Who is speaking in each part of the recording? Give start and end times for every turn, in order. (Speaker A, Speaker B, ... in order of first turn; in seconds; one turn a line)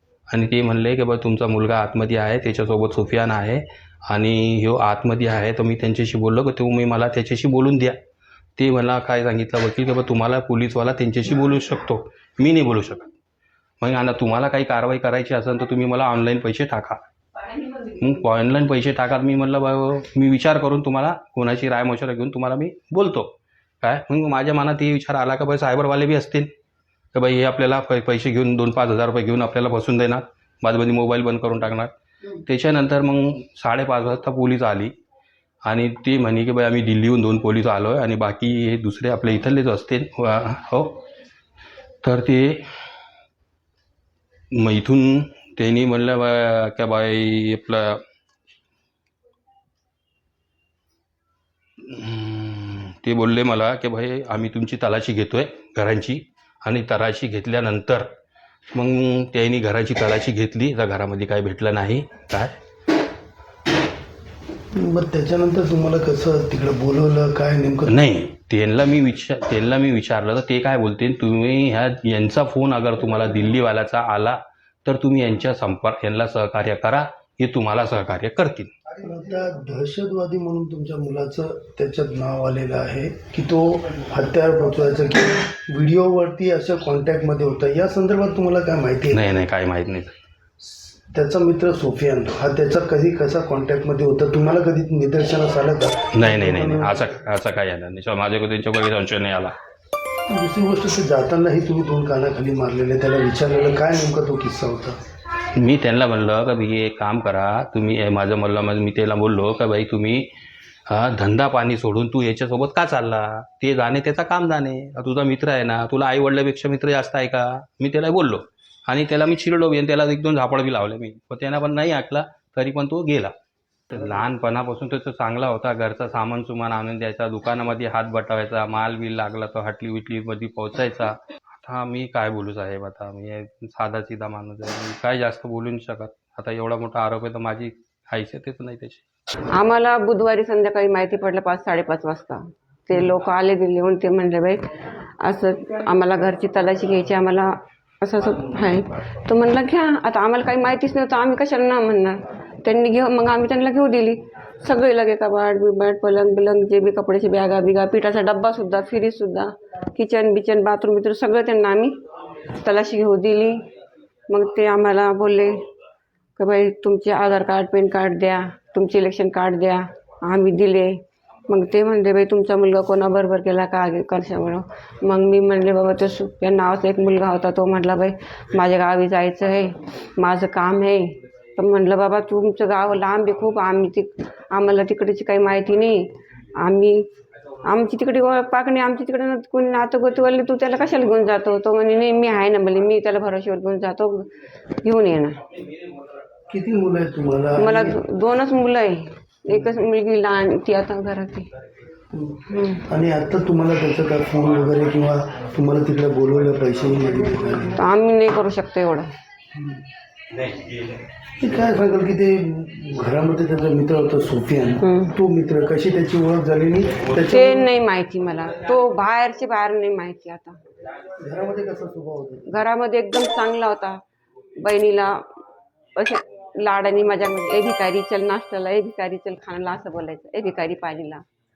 Speaker A: 0.3-8.0
Speaker A: 8.6-13.1
Speaker A: 13.8-17.0
Speaker A: 17.8-26.5
Speaker A: 27.1-34.9
Speaker A: 35.6-41.0
Speaker A: 42.0-42.6
Speaker A: 44.5-48.0
Speaker A: 51.8-58.1
Speaker A: 58.7-62.5
Speaker B: 64.7-68.0
Speaker A: 67.8-78.7
Speaker B: 79.0-89.2
Speaker A: 89.1-90.2
Speaker B: 90.6-97.0
Speaker A: 96.1-99.5
Speaker B: 100.3-105.0
Speaker A: 105.5-110.3
Speaker A: 110.9-123.3
Speaker A: 123.9-139.0
Speaker C: 139.5-144.7
Speaker C: 145.2-162.0
Speaker C: 162.5-163.6
Speaker C: 164.3-165.6
Speaker C: 166.4-187.1
Speaker C: 187.6-195.4
Speaker B: 196.5-198.0
Speaker C: 197.6-201.5
Speaker B: 202.1-207.8
Speaker C: 202.5-202.8
Speaker C: 207.8-209.1
Speaker B: 211.4-217.7
Speaker C: 214.8-215.1
Speaker C: 217.3-220.6
Speaker B: 221.2-222.4
Speaker C: 222.5-224.0
Speaker C: 224.6-225.3
Speaker C: 225.9-231.2